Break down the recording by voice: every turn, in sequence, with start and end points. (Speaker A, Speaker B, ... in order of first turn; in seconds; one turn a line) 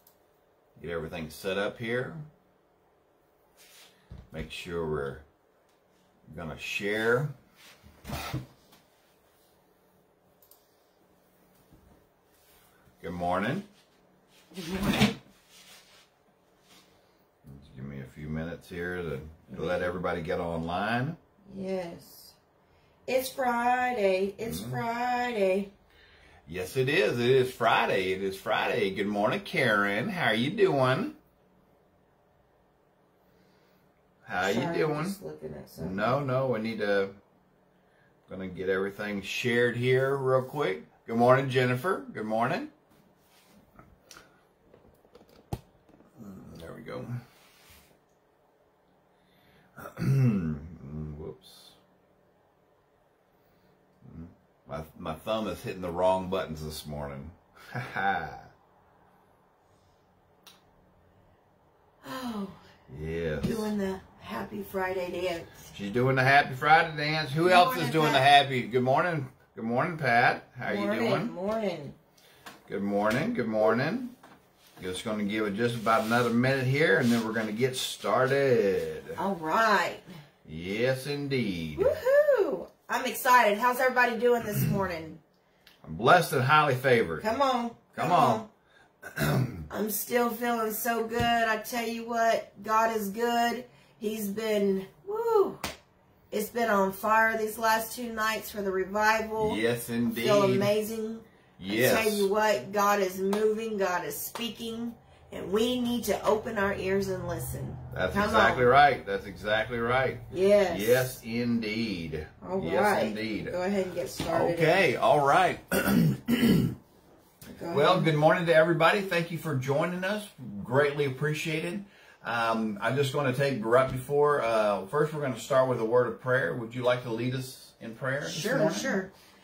Speaker A: 0.8-2.2
Speaker A: 4.3-5.2
Speaker A: 6.3-7.3
Speaker A: 13.0-13.7
Speaker B: 14.5-15.2
Speaker A: 17.4-21.2
Speaker B: 19.5-19.9
Speaker B: 21.5-22.3
Speaker B: 23.1-25.7
Speaker A: 24.4-24.8
Speaker A: 26.4-31.1
Speaker A: 34.2-35.1
Speaker B: 34.4-36.2
Speaker A: 35.8-37.1
Speaker A: 38.3-42.7
Speaker A: 46.2-47.2
Speaker A: 49.8-51.7
Speaker A: 54.0-58.5
Speaker B: 62.0-62.6
Speaker A: 62.9-63.7
Speaker B: 63.4-65.6
Speaker A: 65.7-71.3
Speaker B: 67.4-68.2
Speaker B: 70.7-71.9
Speaker A: 72.7-74.1
Speaker A: 74.8-79.2
Speaker B: 79.2-80.1
Speaker A: 80.4-82.0
Speaker B: 81.8-85.2
Speaker A: 85.8-87.2
Speaker B: 87.2-88.5
Speaker A: 87.9-88.4
Speaker A: 89.0-89.7
Speaker B: 89.7-95.6
Speaker B: 96.3-108.7
Speaker A: 99.4-100.7
Speaker A: 101.6-102.3
Speaker A: 107.9-113.5
Speaker B: 110.3-111.1
Speaker B: 112.4-114.8
Speaker A: 114.3-116.8
Speaker B: 117.5-118.1
Speaker A: 117.7-128.9
Speaker B: 128.2-129.1